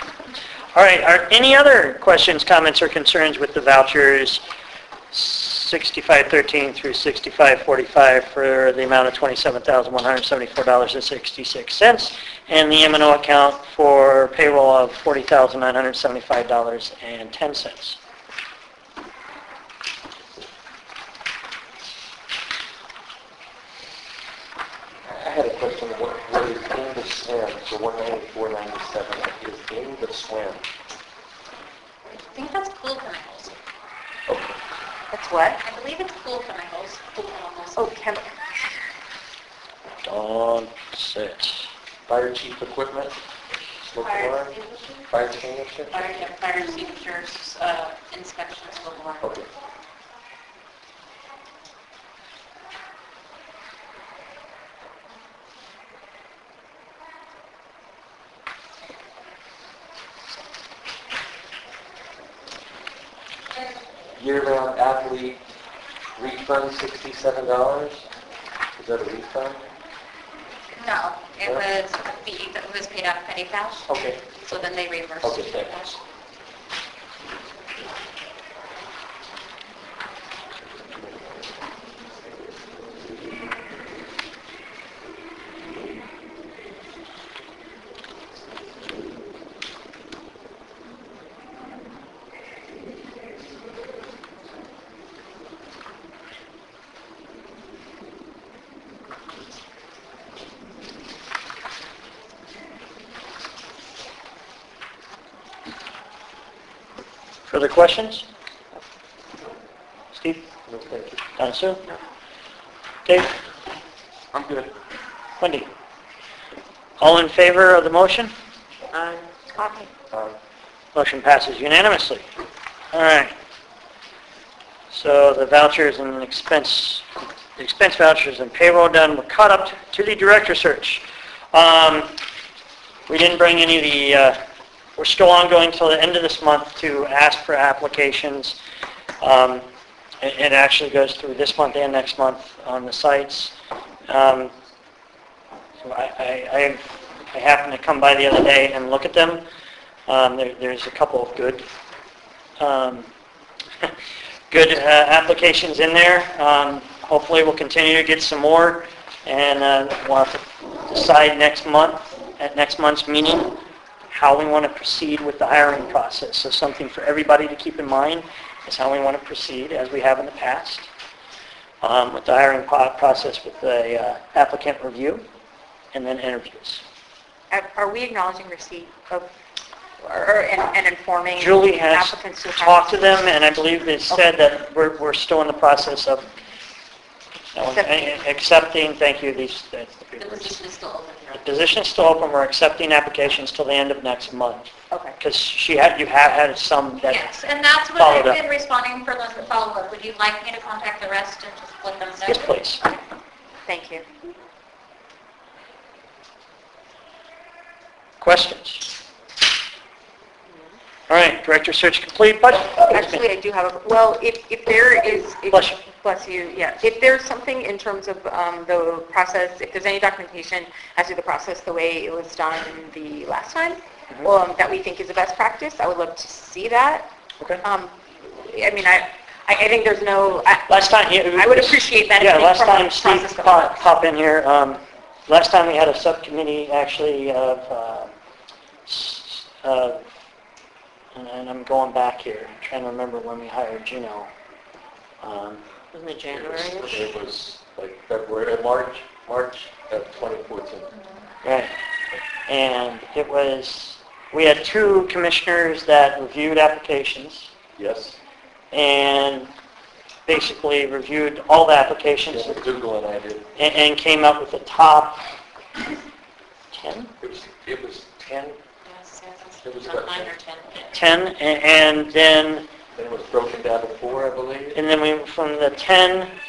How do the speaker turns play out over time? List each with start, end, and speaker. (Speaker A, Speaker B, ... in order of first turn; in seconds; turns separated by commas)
Speaker A: 0.7-4.4, Speaker A: 5.1-18.0, Speaker B: 25.0-30.6, Speaker C: 32.1-33.5, Speaker B: 34.3-34.6, Speaker D: 35.1-35.6, Speaker C: 35.6-37.8, Speaker D: 37.8-38.3, Speaker A: 40.0-41.7, Speaker B: 42.1-43.2, Speaker B: 43.8-44.5, Speaker C: 44.0-45.1, Speaker B: 45.1-46.2, Speaker C: 45.9-49.3, Speaker B: 49.2-49.5, Speaker B: 64.2-65.4, Speaker B: 66.2-68.0, Speaker B: 68.8-69.7, Speaker C: 70.8-76.0, Speaker B: 73.9-74.2, Speaker B: 75.2-75.7, Speaker A: 107.5-108.3, Speaker A: 110.1-110.5, Speaker B: 110.7-111.2, Speaker A: 111.4-111.8, Speaker A: 113.1-113.3, Speaker B: 114.3-114.7, Speaker A: 115.4-115.7, Speaker A: 117.0-118.3, Speaker D: 118.9-119.9, Speaker A: 121.0-122.3, Speaker A: 122.9-123.3, Speaker A: 124.9-132.2, Speaker A: 133.1-134.4, Speaker A: 135.0-138.6, Speaker A: 139.2-139.7, Speaker A: 140.2-143.6, Speaker A: 144.1-144.5, Speaker A: 145.8-149.4, Speaker A: 150.1-151.7, Speaker A: 152.6-153.1, Speaker A: 154.5-163.6, Speaker A: 164.1-170.9, Speaker A: 171.8-175.2, Speaker A: 175.9-176.8, Speaker D: 177.5-179.3, Speaker D: 180.0-183.2, Speaker A: 181.4-186.3, Speaker A: 187.6-190.6, Speaker D: 187.7-188.1, Speaker C: 190.2-191.4, Speaker A: 191.3-197.4, Speaker D: 194.9-195.2, Speaker C: 197.0-202.9, Speaker A: 198.0-198.4, Speaker A: 202.2-202.8, Speaker D: 203.7-204.1, Speaker A: 208.2-208.9, Speaker A: 211.1-213.2, Speaker D: 212.9-227.1, Speaker A: 215.5-215.8, Speaker D: 227.6-230.7, Speaker A: 230.7-238.1, Speaker D: 231.3-233.8, Speaker A: 238.9-240.1, Speaker A: 241.1-244.3, Speaker A: 245.2-245.6, Speaker C: 245.9-247.0, Speaker B: 246.3-250.9, Speaker A: 251.4-251.7, Speaker A: 252.5-257.5, Speaker B: 257.8-258.2, Speaker A: 258.7-259.5, Speaker A: 260.2-262.5, Speaker B: 262.3-263.5, Speaker A: 263.6-265.2, Speaker A: 266.7-267.1, Speaker B: 267.2-268.6, Speaker C: 268.8-270.9, Speaker B: 269.6-270.3, Speaker A: 270.9-272.7, Speaker B: 272.9-274.8, Speaker A: 274.7-276.3